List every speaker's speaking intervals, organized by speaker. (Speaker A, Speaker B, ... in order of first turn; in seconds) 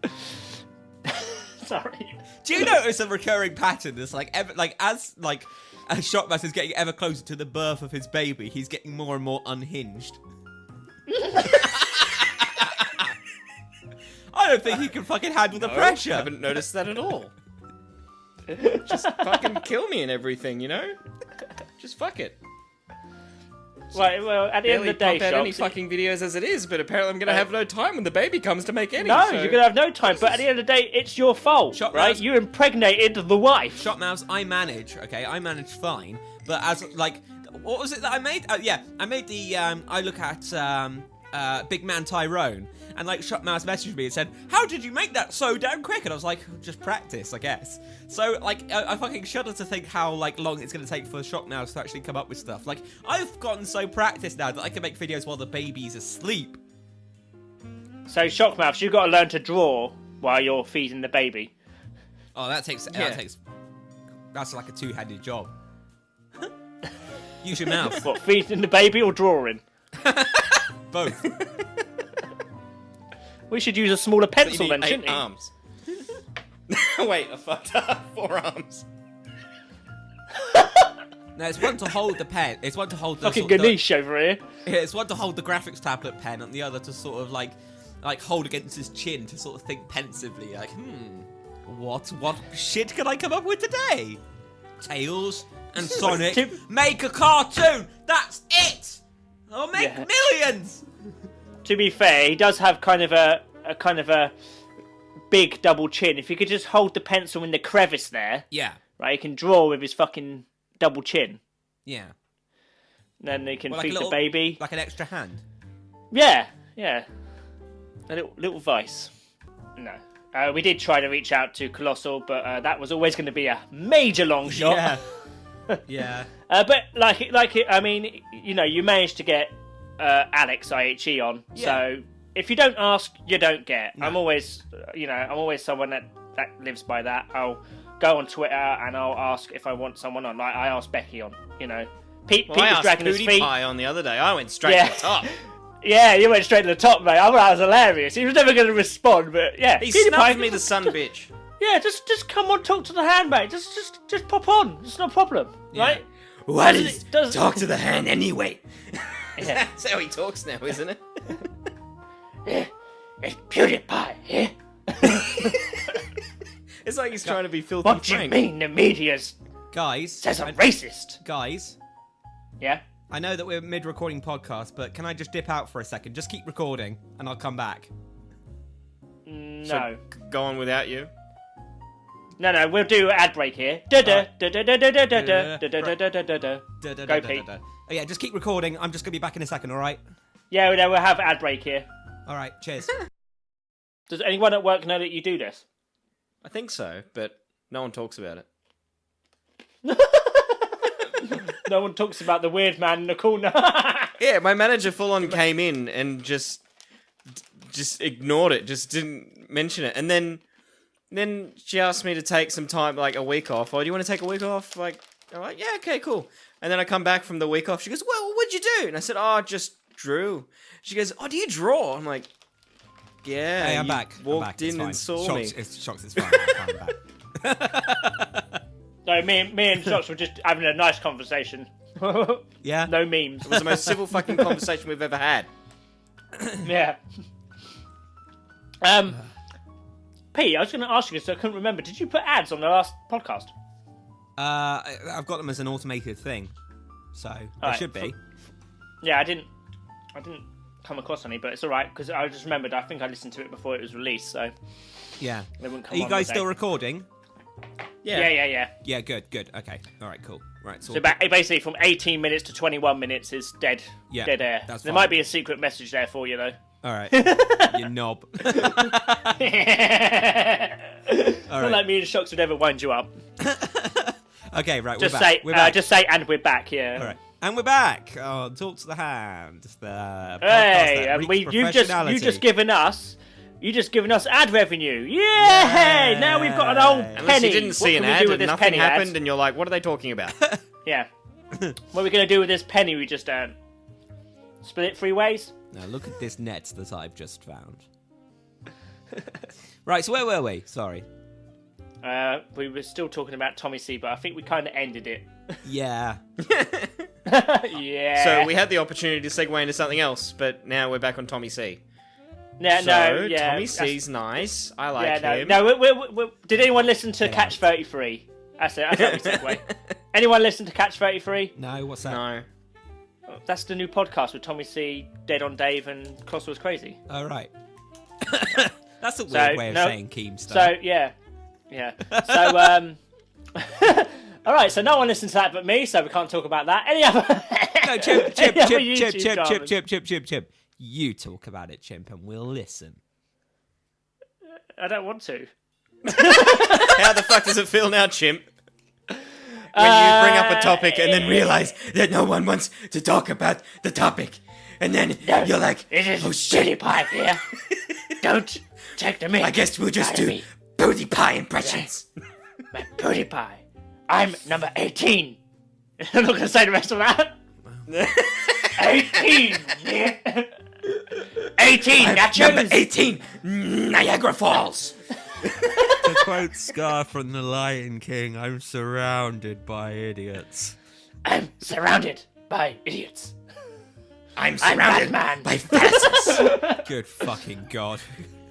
Speaker A: 1.1-2.7, 11.1-11.7, 23.9-25.7, 29.0-33.8, 58.0-61.5, 67.8-69.6, 73.5-75.2, 80.4-80.9, 83.2-84.4, 96.0-96.6, 99.7-100.1, 101.6-104.3, 105.3-108.5, 109.0-111.4, 113.2-114.6, 116.1-117.0, 118.1-119.1, 119.8-125.0, 126.5-143.5, 144.6-150.9, 151.6-156.0, 156.6-157.6, 162.4-162.7, 163.2-165.6, 167.8-169.3, 170.2-171.2, 179.2-180.0, 182.4-187.4, 190.5-191.9, 194.1-195.6, 199.8-204.1, 229.1-233.9, 236.6-237.0, 238.8-239.2, 240.3-243.5, 247.6-248.1, 249.0-249.5, 250.1-254.5, 255.6-256.4, 258.1-258.7, 260.9-266.6, 267.1-267.8, 268.4-273.1, 275.0-277.1, 280.4-289.1, 291.9-293.5, 294.6-295.5, 302.0-305.6, 307.2-308.5, 312.6-314.0, 315.0-321.5, 323.3-327.0, 329.3-331.1, 331.7-333.0, 333.5-339.7, 344.8-345.5, 346.1-347.0, 349.7-351.6, 355.2-357.4, 358.2-360.4, 361.6-361.9, 362.7-365.4, 366.0-367.3, 368.8-370.5, 371.4-372.8, 381.2-383.3, 384.6-386.9
Speaker B: 2.4-10.2, 11.6-13.1, 14.3-16.3, 31.7-32.2, 33.8-56.6, 62.3-63.4, 64.3-65.5, 67.4-68.0, 70.0-71.3, 81.3-83.8, 84.6-94.2, 94.8-100.8, 108.5-108.8, 111.8-112.1, 113.7-115.4, 124.5-125.0, 125.9-126.3, 131.5-131.8, 155.7-156.0, 169.7-170.7, 171.2-171.8, 173.1-177.9, 185.1-185.9, 186.8-190.0, 192.2-192.9, 223.6-228.6, 232.6-232.9, 244.4-246.5, 247.1-248.2, 255.2-257.1, 258.8-261.1, 264.1-265.2, 266.8-269.4, 271.5-271.9, 273.4-275.8, 276.9-282.4, 285.4-287.3, 295.7-297.8, 299.8-301.1, 305.6-306.2, 317.2-317.6, 321.6-322.2, 327.1-327.5, 328.2-330.8, 332.1-332.7, 337.8-343.0, 375.9-380.7, 386.4-388.2
Speaker C: 15.5-17.3, 18.6-20.9, 21.8-22.4, 24.6-29.6, 62.9-63.2, 71.2-71.6, 74.4-75.5, 76.7-78.8, 142.5-145.3, 149.8-151.3, 156.4-161.4, 166.8-168.4, 179.7-181.1, 196.4-198.4, 204.2-206.6, 207.3-210.4, 211.1-222.3, 223.2-225.6, 233.4-235.5, 258.0-258.3, 287.1-290.4, 306.4-307.1, 308.2-311.8, 312.7-315.6, 318.9-319.7, 322.0-322.5, 346.1-348.5, 349.7-357.1, 357.7-358.1, 359.4-362.1, 367.9-369.6, 371.9-376.3, 384.4-386.6